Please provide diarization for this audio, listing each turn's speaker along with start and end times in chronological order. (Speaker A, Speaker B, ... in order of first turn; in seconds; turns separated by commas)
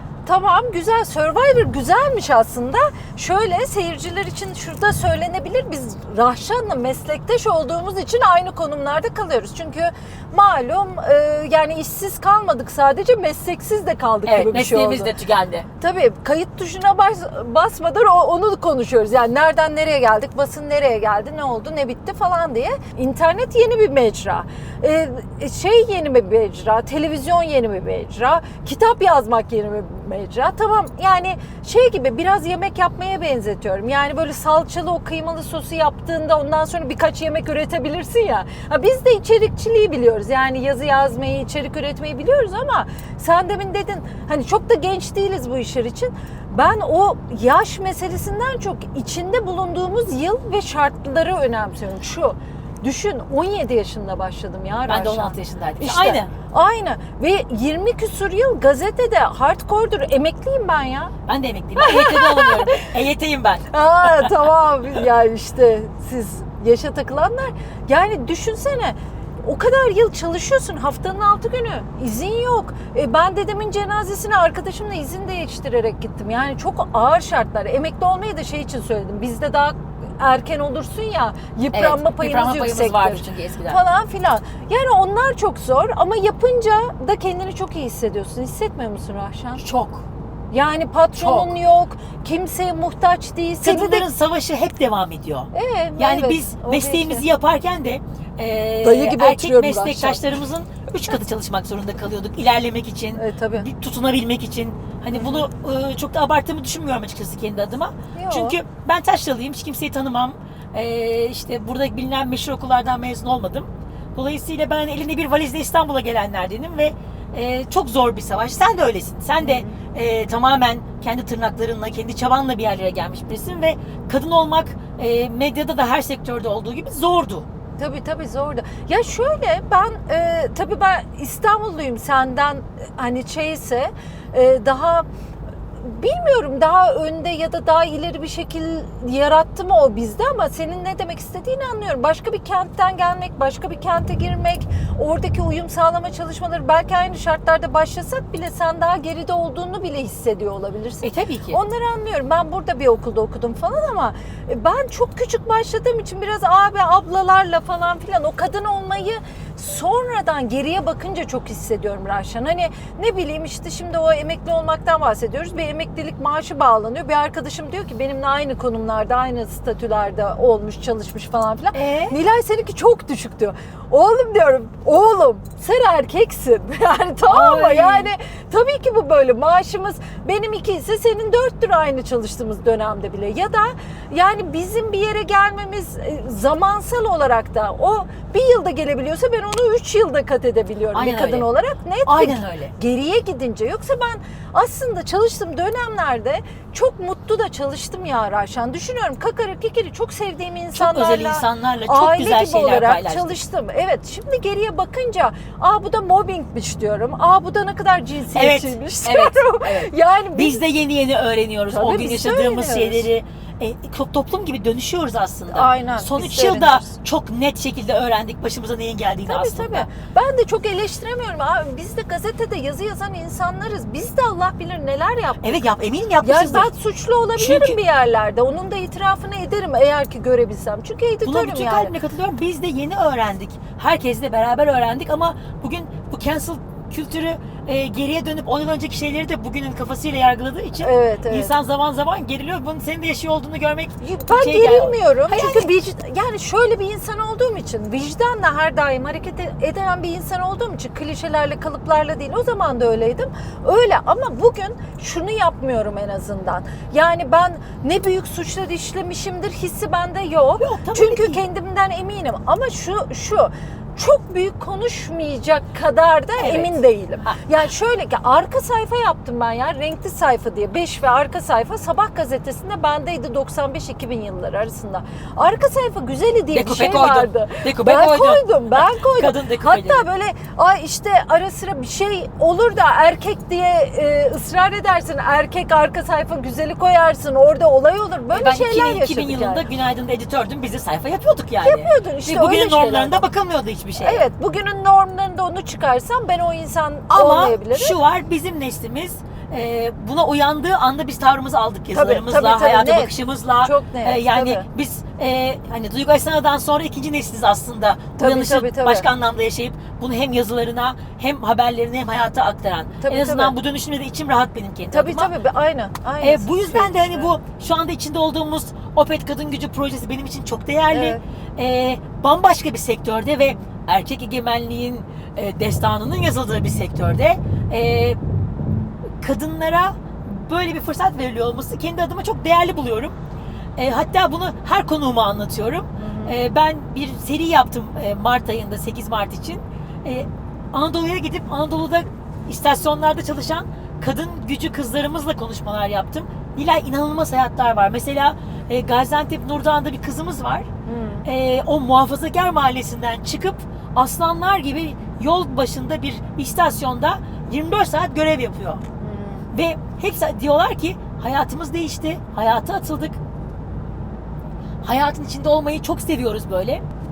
Speaker A: 0.2-15.1, Speaker B: 14.2-15.7, Speaker A: 15.8-61.1, Speaker B: 54.9-56.3, Speaker B: 61.3-64.3, Speaker A: 61.8-62.9, Speaker A: 63.7-89.6, Speaker B: 81.7-83.8, Speaker B: 89.6-90.0, Speaker A: 90.5-94.1, Speaker B: 91.2-91.5, Speaker B: 93.6-127.5, Speaker A: 95.5-97.2, Speaker A: 98.8-100.2, Speaker A: 103.2-103.7, Speaker A: 105.1-105.4, Speaker A: 108.1-108.6, Speaker A: 119.4-119.8, Speaker A: 127.8-135.1, Speaker A: 135.8-210.6, Speaker B: 151.0-151.6, Speaker B: 171.7-172.1, Speaker B: 177.3-178.1, Speaker B: 190.9-191.5, Speaker B: 192.0-192.7, Speaker B: 200.7-203.4, Speaker B: 208.3-219.9, Speaker A: 211.7-213.1, Speaker A: 215.5-216.9, Speaker A: 219.2-225.6, Speaker B: 225.4-226.7, Speaker A: 226.2-231.9, Speaker B: 227.3-227.8, Speaker B: 231.2-245.7, Speaker A: 240.8-241.5, Speaker A: 244.0-289.6, Speaker B: 260.6-261.4, Speaker B: 266.4-267.4, Speaker B: 276.5-280.1, Speaker B: 288.3-294.3, Speaker A: 291.6-293.2, Speaker A: 294.0-298.0, Speaker B: 297.1-315.3, Speaker A: 301.9-304.6, Speaker A: 308.2-309.1, Speaker A: 313.0-313.5, Speaker A: 314.9-317.3, Speaker B: 316.2-328.2, Speaker A: 320.9-321.2, Speaker B: 329.2-333.1, Speaker B: 333.8-350.7, Speaker A: 335.9-336.4, Speaker A: 350.9-351.2, Speaker B: 351.2-358.8, Speaker A: 359.0-359.5, Speaker B: 359.5-363.2, Speaker B: 364.8-366.8